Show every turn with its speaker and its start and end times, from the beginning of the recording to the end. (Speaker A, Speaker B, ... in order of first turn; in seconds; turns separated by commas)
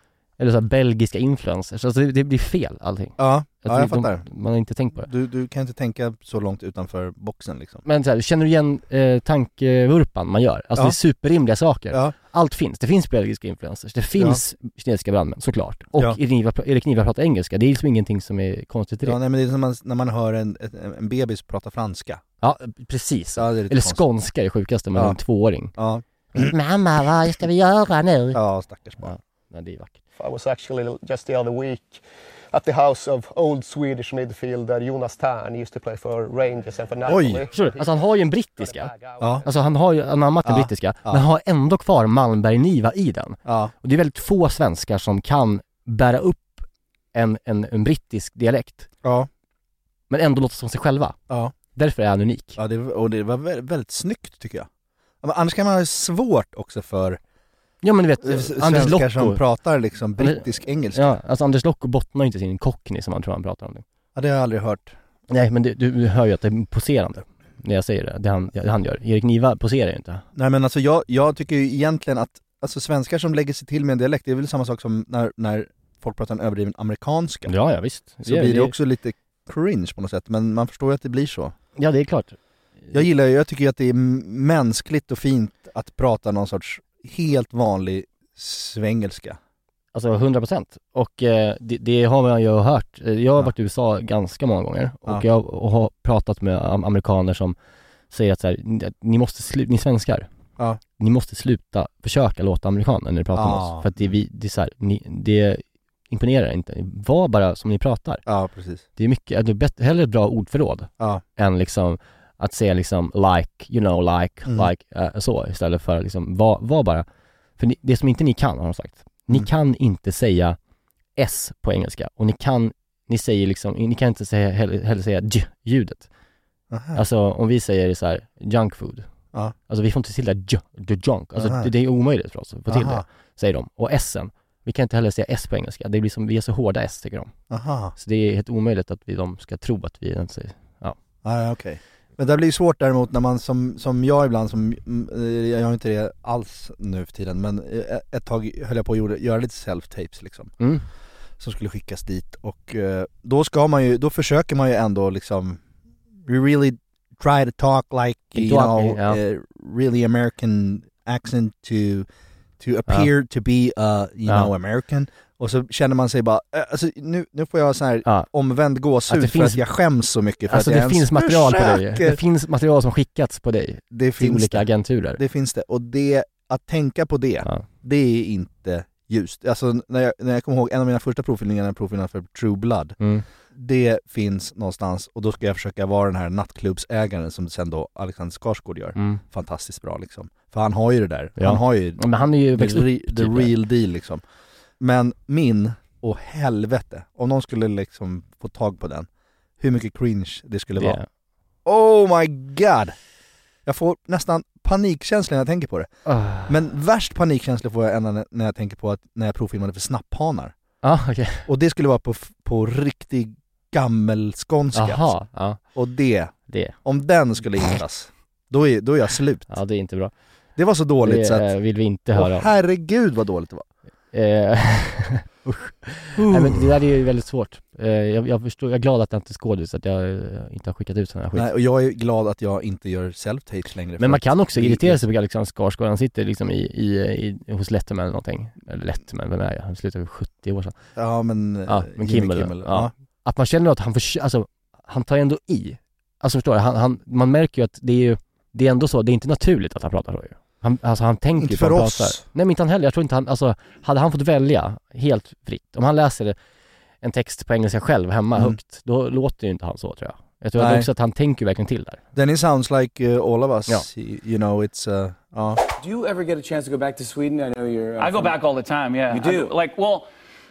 Speaker A: 0.4-5.1, Speaker B: 3.2-4.3, Speaker B: 5.0-7.8, Speaker A: 7.8-19.2, Speaker B: 19.0-22.2, Speaker A: 22.4-25.8, Speaker B: 23.4-24.0, Speaker B: 25.8-26.5, Speaker A: 26.3-28.4, Speaker B: 28.3-29.1, Speaker A: 29.0-29.9, Speaker C: 30.2-38.0, Speaker B: 37.0-37.5, Speaker A: 37.5-46.6, Speaker C: 38.6-39.3, Speaker B: 39.2-39.4, Speaker B: 40.4-41.2, Speaker B: 43.4-43.7, Speaker A: 47.1-48.9, Speaker B: 49.0-49.3, Speaker A: 50.1-51.2, Speaker A: 51.7-52.6, Speaker B: 52.5-54.7, Speaker B: 55.2-57.2, Speaker A: 57.8-59.4, Speaker B: 58.2-61.1, Speaker A: 60.2-63.8, Speaker B: 64.1-65.0, Speaker A: 65.3-70.2, Speaker B: 70.3-77.5, Speaker A: 77.5-78.7, Speaker B: 78.2-81.5, Speaker A: 81.8-82.4, Speaker B: 82.9-89.4, Speaker A: 89.9-97.5, Speaker A: 98.1-100.3, Speaker A: 101.0-108.2, Speaker B: 103.3-104.1, Speaker B: 108.2-108.8, Speaker A: 109.0-117.0, Speaker A: 117.6-120.6, Speaker A: 121.2-126.1, Speaker B: 126.7-127.0, Speaker A: 126.9-129.1, Speaker A: 129.7-137.3, Speaker B: 131.3-131.7, Speaker B: 132.7-133.0, Speaker B: 137.5-137.9, Speaker A: 137.9-140.9, Speaker B: 141.2-150.5, Speaker A: 150.6-150.8, Speaker B: 151.4-155.6, Speaker B: 156.2-162.1, Speaker A: 158.3-159.2, Speaker B: 162.6-172.2, Speaker A: 169.1-169.6, Speaker A: 170.5-175.2, Speaker B: 173.9-182.9, Speaker A: 183.0-183.2, Speaker B: 183.5-194.2, Speaker A: 188.9-189.2, Speaker A: 191.4-193.5, Speaker B: 194.8-199.1, Speaker B: 199.6-201.0, Speaker A: 200.8-201.1, Speaker B: 201.6-202.9, Speaker B: 203.7-205.9, Speaker A: 206.1-206.5, Speaker B: 206.4-210.5, Speaker A: 210.8-211.4, Speaker B: 211.4-215.1, Speaker A: 214.7-215.6, Speaker B: 215.6-219.5, Speaker A: 216.5-216.8, Speaker A: 219.5-220.1, Speaker B: 220.6-221.5, Speaker A: 221.0-222.5, Speaker B: 222.1-223.7, Speaker A: 224.1-231.5, Speaker B: 226.2-226.7, Speaker B: 231.3-235.0, Speaker A: 234.0-240.7, Speaker B: 240.9-242.9, Speaker A: 241.7-256.4, Speaker B: 251.4-252.2, Speaker A: 257.0-262.0, Speaker B: 260.6-260.9, Speaker B: 262.1-265.6, Speaker D: 265.8-268.4, Speaker E: 268.0-270.1, Speaker D: 269.1-269.5